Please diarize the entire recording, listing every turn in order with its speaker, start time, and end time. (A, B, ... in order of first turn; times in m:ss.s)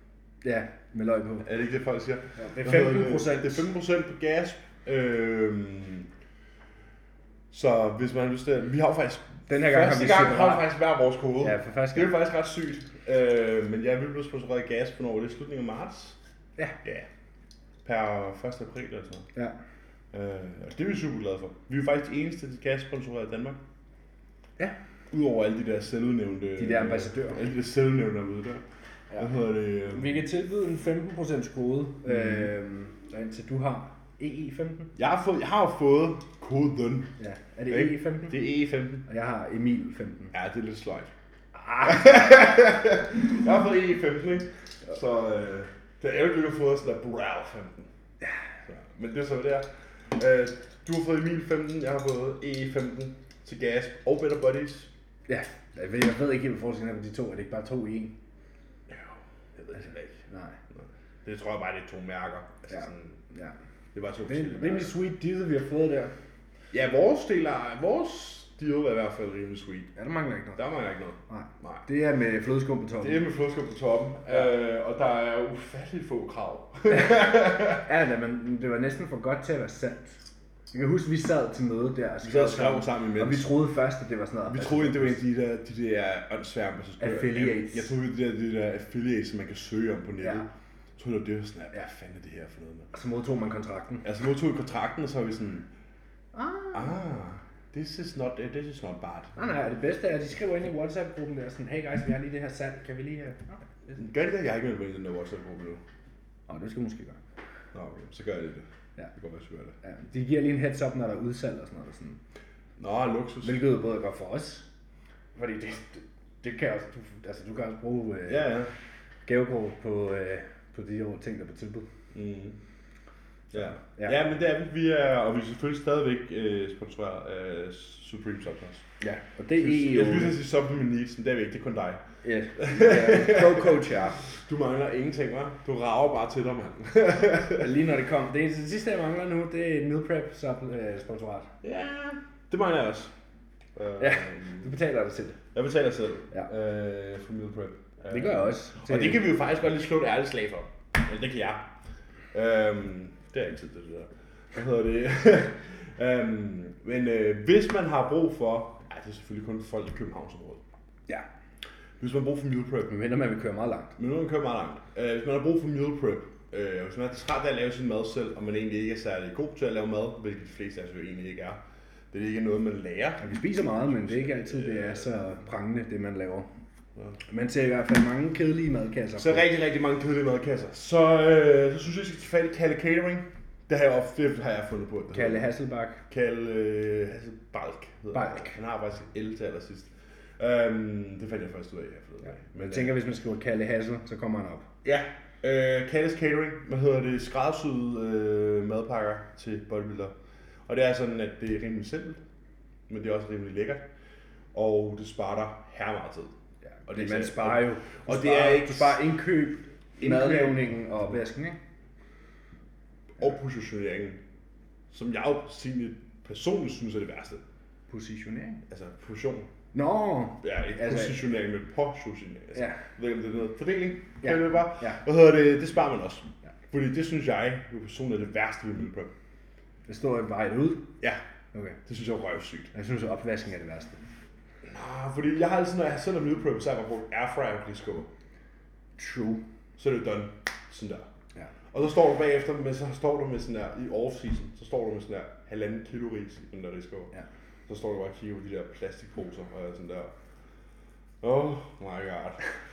0:00.4-0:01.5 A
0:01.4-0:06.1 B
0:02.4-0:03.7 A
0:07.5-0:16.2 B
0:09.5-0:10.7 A
0:11.4-0:12.1 A
0:16.8-0:17.1 B
0:17.8-0:19.3 B
0:20.1-0:23.6 B
0:25.1-0:28.6 B
0:26.6-0:27.4 A
0:29.2-0:30.2 B
0:29.9-0:34.9 A
0:35.0-0:37.1 B
0:37.2-0:38.4 A
0:37.7-0:39.1 B
0:39.1-0:40.3 A
0:40.3-0:41.1 B
0:41.5-0:42.4 A
0:41.8-0:47.9 B
0:48.7-0:54.9 B
0:55.3-0:58.2 A
0:58.9-1:03.2 B
1:00.3-1:00.6 A
1:02.7-1:03.6 A
1:03.9-1:05.0 B
1:04.3-1:06.1 A
1:06.7-1:09.9 B
1:10.0-1:10.6 A
1:10.6-1:11.9 B
1:11.3-1:13.2 A
1:13.0-1:17.9 B
1:16.9-1:25.2 A
1:22.2-1:23.5 B
1:24.5-1:32.9 B
1:27.0-1:27.9 A
1:30.2-1:30.5 A
1:32.9-1:34.0 A
1:34.0-1:35.7 B
1:36.3-1:37.0 A
1:36.7-1:39.5 B
1:39.4-1:43.7 A
1:43.9-1:45.8 B
1:46.5-1:47.2 A
1:47.7-1:49.8 B
1:49.8-1:52.2 A
1:52.8-1:53.6 B
1:53.4-1:54.7 A
1:55.4-1:58.5 A
1:58.3-1:58.7 B
1:59.3-2:01.9 A
2:02.1-2:02.6 B
2:03.5-2:08.8 B
2:03.6-2:04.2 A
2:09.0-2:10.4 A
2:09.6-2:12.0 B
2:12.2-2:14.2 A
2:12.6-2:17.7 B
2:17.6-2:21.5 A
2:21.6-2:23.1 B
2:23.8-2:24.7 B
2:24.0-2:25.4 A
2:25.5-2:31.7 B
2:28.1-2:29.2 A
2:32.3-2:40.6 B
2:42.0-2:43.0 B
2:42.9-2:43.9 A
2:44.0-2:51.6 B
2:52.1-2:55.1 B
2:53.2-2:56.5 A
2:57.3-2:59.5 A
2:59.2-3:05.5 B
3:05.1-3:06.0 A
3:06.1-3:13.0 B
3:08.1-3:08.6 A
3:12.6-3:14.7 A
3:14.8-3:20.1 B
3:20.7-3:22.2 B
3:22.9-3:23.8 B
3:24.5-3:26.3 B
3:26.8-3:31.6 A
3:26.9-3:29.0 B
3:30.0-3:30.7 B
3:33.2-3:34.2 B
3:34.9-3:37.4 B
3:37.9-3:38.6 A
3:38.7-3:39.5 B
3:39.7-3:41.2 A
3:40.4-3:49.1 B
3:42.6-3:42.8 A
3:44.2-3:45.0 A
3:49.9-3:50.9 A
3:51.9-3:52.7 B
3:52.7-3:54.0 A
3:54.6-3:58.1 B
3:59.0-3:59.4 A
3:59.8-4:01.1 B
4:01.7-4:07.1 B
4:07.7-4:10.1 B
4:11.2-4:12.5 B